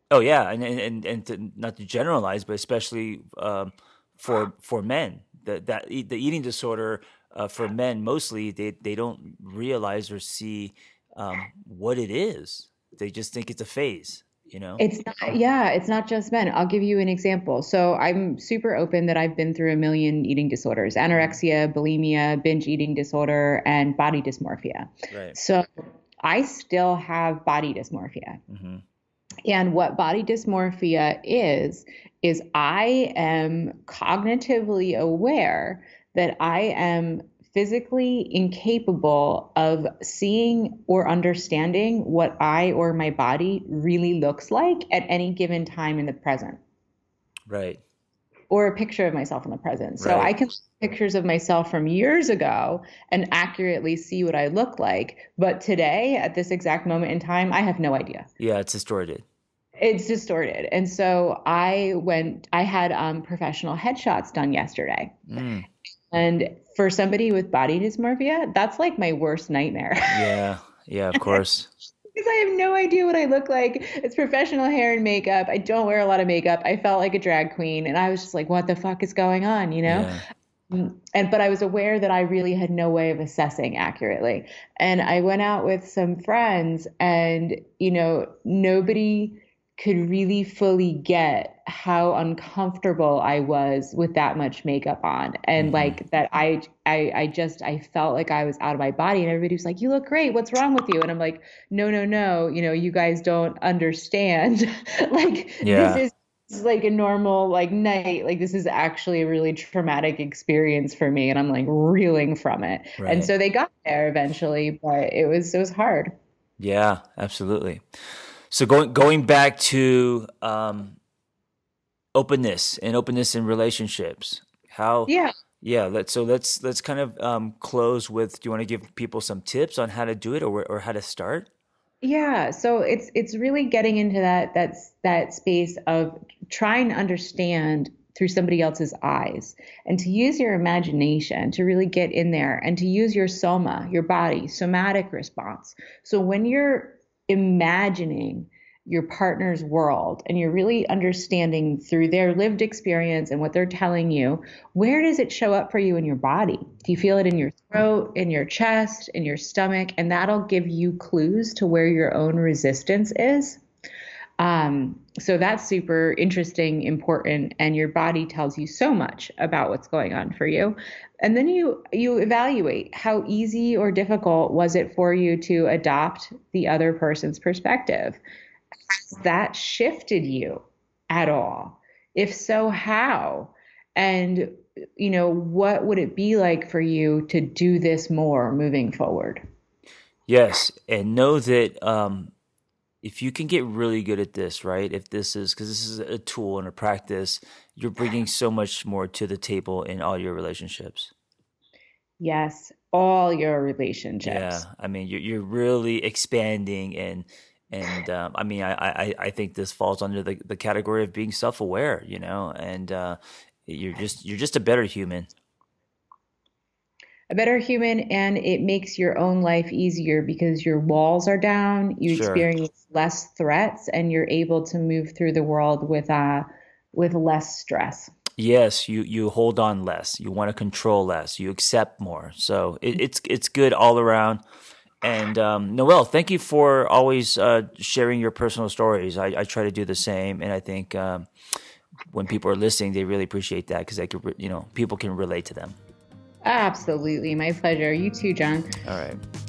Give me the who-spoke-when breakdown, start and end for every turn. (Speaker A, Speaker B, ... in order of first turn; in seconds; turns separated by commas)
Speaker A: 0.1-14.8, Speaker B: 14.8-25.6, Speaker A: 25.1-25.4, Speaker B: 26.2-28.4, Speaker A: 28.5-28.8, Speaker B: 29.4-46.6, Speaker A: 47.5-47.8, Speaker B: 48.5-58.3, Speaker A: 50.0-50.3, Speaker A: 58.4-59.2, Speaker B: 59.8-65.2, Speaker A: 65.3-65.7, Speaker B: 66.1-70.3, Speaker A: 70.1-71.7, Speaker B: 71.2-71.4, Speaker B: 72.1-80.1, Speaker A: 79.9-80.2, Speaker B: 80.7-116.1, Speaker A: 95.6-96.0, Speaker A: 105.6-106.0, Speaker A: 113.0-113.3, Speaker A: 116.6-117.8, Speaker A: 118.5-121.0, Speaker A: 122.1-131.5, Speaker B: 125.1-125.3, Speaker B: 132.0-163.6, Speaker B: 164.4-178.2, Speaker B: 178.9-189.4, Speaker A: 190.3-192.3, Speaker A: 193.0-201.1, Speaker B: 202.2-204.6, Speaker A: 204.2-215.3, Speaker B: 217.3-228.1, Speaker A: 222.1-222.4, Speaker A: 228.4-234.4, Speaker A: 235.0-241.3, Speaker A: 242.1-245.8, Speaker B: 246.4-248.7, Speaker A: 248.8-249.2